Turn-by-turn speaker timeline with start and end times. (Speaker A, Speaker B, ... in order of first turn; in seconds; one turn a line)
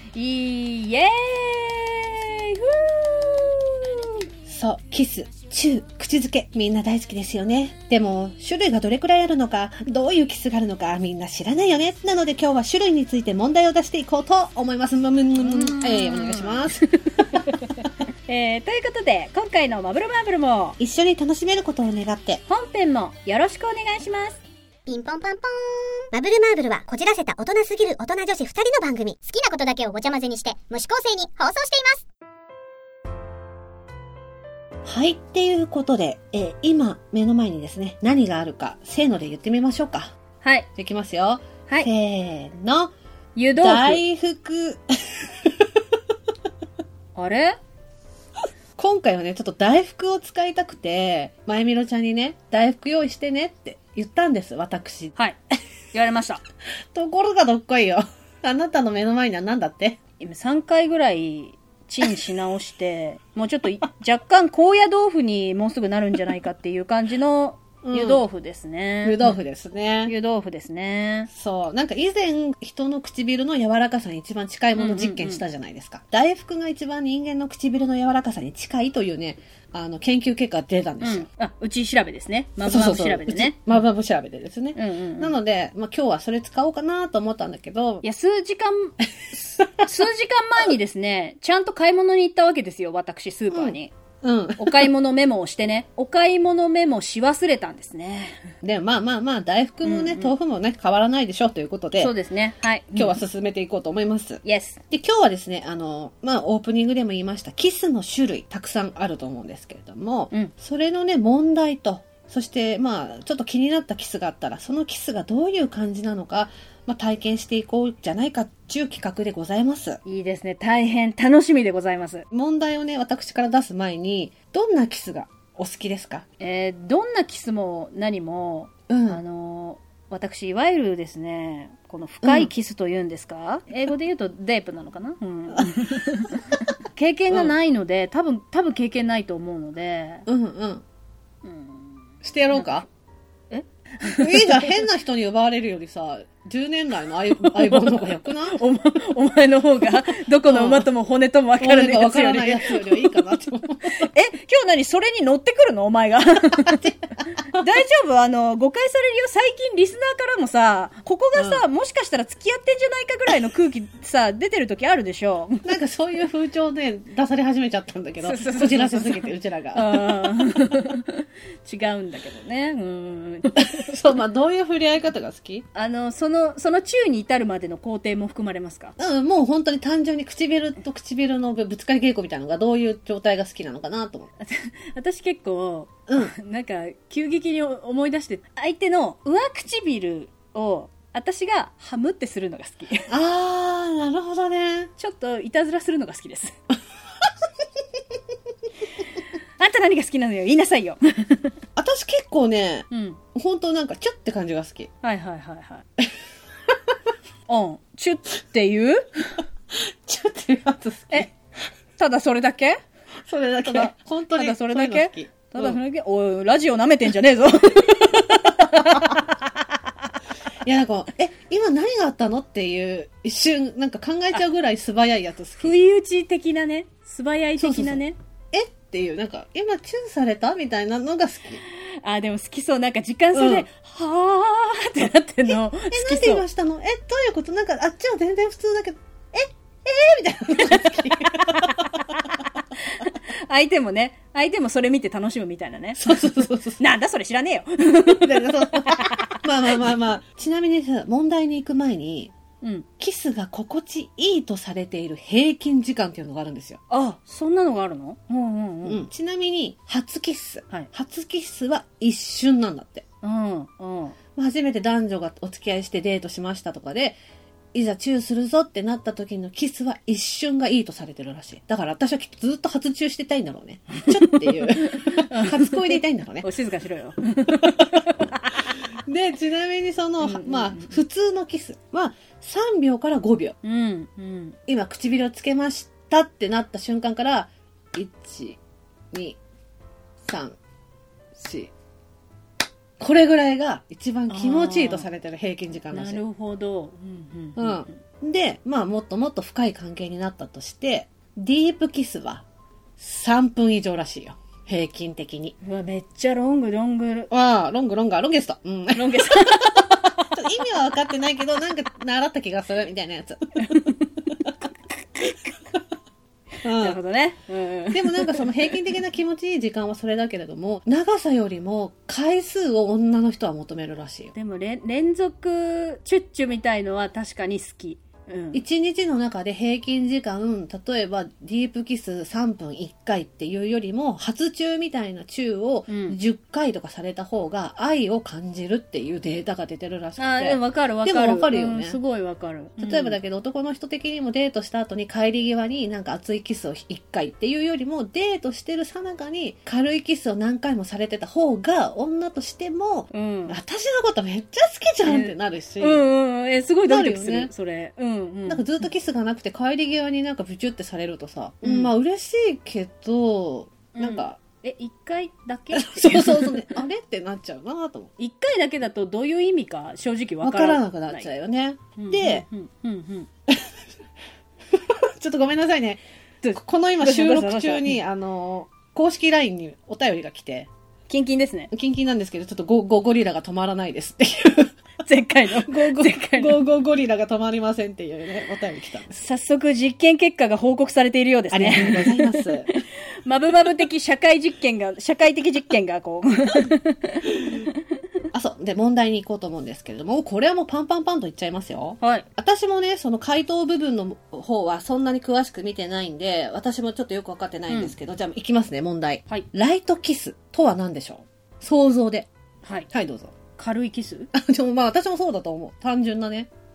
Speaker A: 0.1-4.2
Speaker B: 4.5-16.9
Speaker A: 15.4-20.8
Speaker B: 20.8-22.4
Speaker A: 22.5-24.4
Speaker C: 24.9-32.0
Speaker B: 34.8-40.1
Speaker A: 40.4-40.7
Speaker B: 40.8-42.9
Speaker A: 43.3-44.0
Speaker B: 43.5-45.6
Speaker A: 47.1-47.6
Speaker B: 48.8-55.1
Speaker A: 55.9-56.4
Speaker B: 56.9-60.0
Speaker A: 60.2-69.3
Speaker B: 67.8-68.2
Speaker B: 69.0-70.1
Speaker A: 70.0-71.3
Speaker B: 71.3-81.3
Speaker A: 74.8-75.4
Speaker A: 81.0-83.6
Speaker B: 82.7-88.0
Speaker A: 84.8-85.3
Speaker A: 88.0-93.9
Speaker B: 93.5-94.9
Speaker A: 94.6-98.4
Speaker B: 98.6-102.1
Speaker A: 99.8-100.3
Speaker A: 102.0-103.2
Speaker B: 102.9-120.0
Speaker A: 104.4-104.8
Speaker A: 120.0-122.2
Speaker B: 122.3-126.2
Speaker A: 126.4-140.2
Speaker B: 128.9-129.2
Speaker B: 132.2-132.5
Speaker B: 140.2-140.8
Speaker A: 141.4-142.0
Speaker B: 142.2-142.9
Speaker A: 143.5-144.8
Speaker B: 144.0-148.6
Speaker A: 147.4-153.1
Speaker B: 150.4-150.9
Speaker B: 151.6-154.1
Speaker A: 153.9-156.9
Speaker B: 156.7-156.9
Speaker A: 157.4-165.7
Speaker B: 161.3-161.6
Speaker B: 165.6-170.3
Speaker A: 168.2-173.9
Speaker B: 173.6-175.7
Speaker A: 175.7-178.9
Speaker B: 179.0-184.3
Speaker A: 184.4-193.1
Speaker B: 186.1-186.3
Speaker B: 193.1-194.9
Speaker A: 195.0-196.6
Speaker A: 199.6-201.5
Speaker B: 201.8-204.9
Speaker A: 202.9-203.2
Speaker A: 205.0-205.9
Speaker A: 207.5-209.4
Speaker B: 210.0-211.3
Speaker A: 212.0-212.8
Speaker B: 213.2-215.8
Speaker A: 213.6-219.5
Speaker B: 220.6-225.7
Speaker A: 225.6-228.2
Speaker B: 227.6-231.6
Speaker A: 231.8-236.4
Speaker B: 233.3-233.7
Speaker B: 235.9-241.9
Speaker A: 241.8-242.2
Speaker A: 242.9-249.4
Speaker B: 246.0-246.8
Speaker B: 248.1-252.3
Speaker A: 252.6-252.9
Speaker B: 253.0-256.8
Speaker A: 256.9-259.0
Speaker B: 258.8-263.0
Speaker A: 263.2-264.1
Speaker B: 264.4-267.2
Speaker B: 267.7-276.4
Speaker A: 274.0-278.8
Speaker B: 277.6-277.9
Speaker B: 279.0-283.6
Speaker A: 280.2-281.0
Speaker A: 283.6-284.6
Speaker B: 284.7-288.6
Speaker B: 289.1-289.4
Speaker B: 290.2-290.6
Speaker B: 291.3-291.7
Speaker B: 293.0-296.2
Speaker A: 294.3-295.1
Speaker A: 295.9-298.0
Speaker B: 297.6-302.4
Speaker B: 303.0-305.6
Speaker A: 305.6-307.3
Speaker B: 307.3-313.5
Speaker A: 308.9-309.9
Speaker A: 313.6-314.1
Speaker A: 315.1-315.6
Speaker B: 316.6-317.0
Speaker A: 316.7-318.5
Speaker B: 317.9-324.3
Speaker A: 324.3-328.6
Speaker B: 328.5-342.0
Speaker A: 335.9-336.2
Speaker A: 340.2-343.2
Speaker B: 342.8-356.0
Speaker A: 353.1-353.6
Speaker A: 355.0-358.6
Speaker B: 356.9-357.5
Speaker B: 358.5-364.4
Speaker A: 361.6-361.9
Speaker A: 363.9-366.8
Speaker B: 365.7-368.1
Speaker A: 368.2-371.3
Speaker B: 370.4-372.4
Speaker A: 372.0-373.3
Speaker B: 374.7-376.0
Speaker A: 376.4-378.0
Speaker B: 376.5-380.7
Speaker A: 381.1-381.7
Speaker B: 381.7-384.7
Speaker A: 385.0-386.6
Speaker B: 385.6-389.1
Speaker A: 389.1-397.6
Speaker B: 391.5-392.7
Speaker B: 398.3-412.3
Speaker A: 402.0-402.2
Speaker A: 407.7-407.9
Speaker A: 412.6-412.9
Speaker B: 412.9-413.3
Speaker A: 413.6-414.3
Speaker B: 414.3-416.5